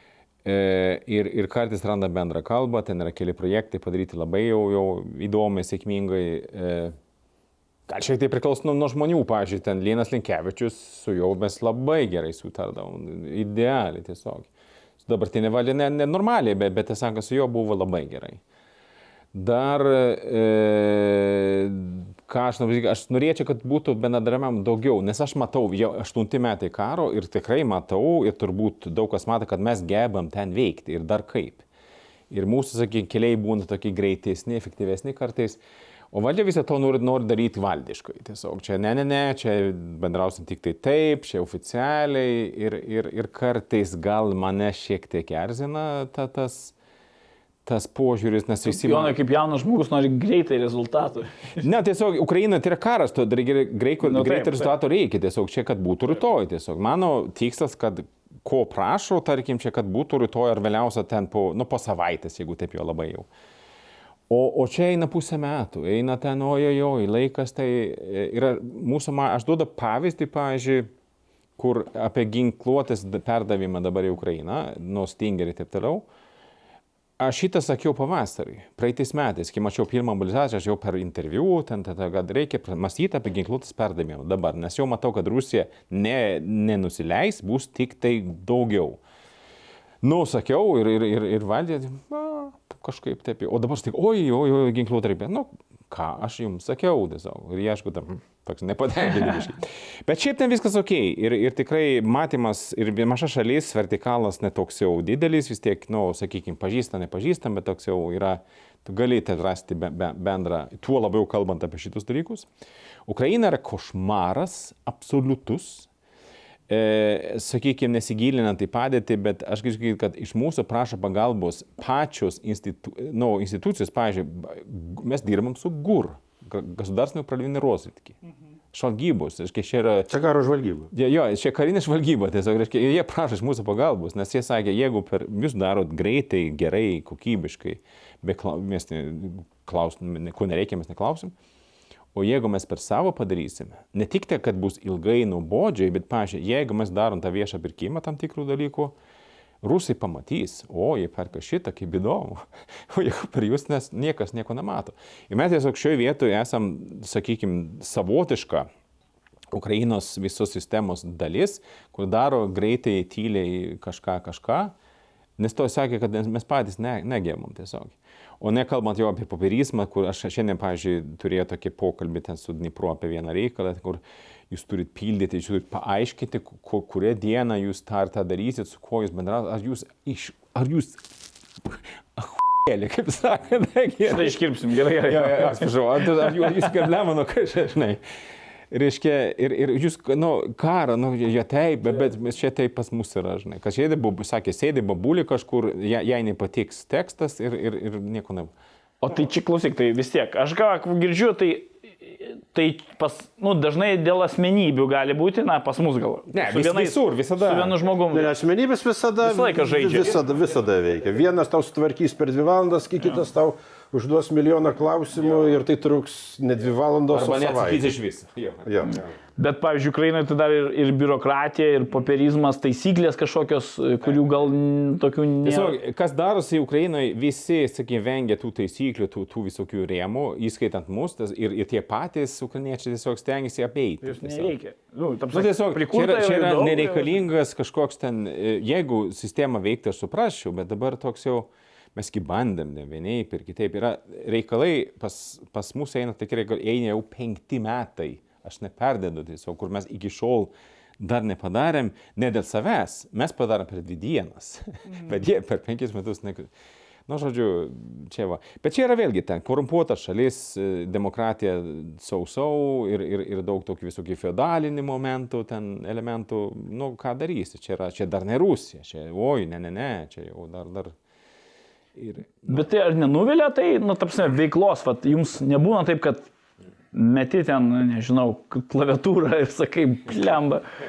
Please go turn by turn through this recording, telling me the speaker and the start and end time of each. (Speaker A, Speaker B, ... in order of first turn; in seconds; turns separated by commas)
Speaker A: 0.5-7.0, Speaker A: 7.9-14.5, Speaker A: 15.0-18.4, Speaker A: 19.3-31.6, Speaker A: 32.3-35.6, Speaker A: 36.1-46.7, Speaker A: 47.6-49.2, Speaker B: 48.7-51.6, Speaker A: 51.6-63.3, Speaker B: 54.0-54.7, Speaker A: 64.3-70.9, Speaker A: 71.6-76.0, Speaker A: 77.2-89.0, Speaker A: 90.0-112.5, Speaker A: 113.1-115.9, Speaker A: 116.7-128.2, Speaker A: 128.7-130.1, Speaker C: 130.1-130.9, Speaker A: 130.9-141.3, Speaker A: 142.2-148.9, Speaker A: 149.6-158.7, Speaker A: 159.5-164.7, Speaker A: 165.4-181.0, Speaker A: 181.6-184.4, Speaker B: 184.1-186.7, Speaker A: 185.0-188.0, Speaker A: 188.7-198.5, Speaker B: 199.0-208.3, Speaker A: 206.3-207.8, Speaker C: 208.1-217.9, Speaker B: 209.2-210.1, Speaker A: 217.1-219.1, Speaker C: 218.7-219.0, Speaker B: 218.9-225.8, Speaker A: 225.4-234.5, Speaker B: 234.0-237.2, Speaker A: 235.3-256.5, Speaker A: 257.1-270.9, Speaker A: 271.9-272.7, Speaker B: 272.5-276.3, Speaker B: 276.9-280.7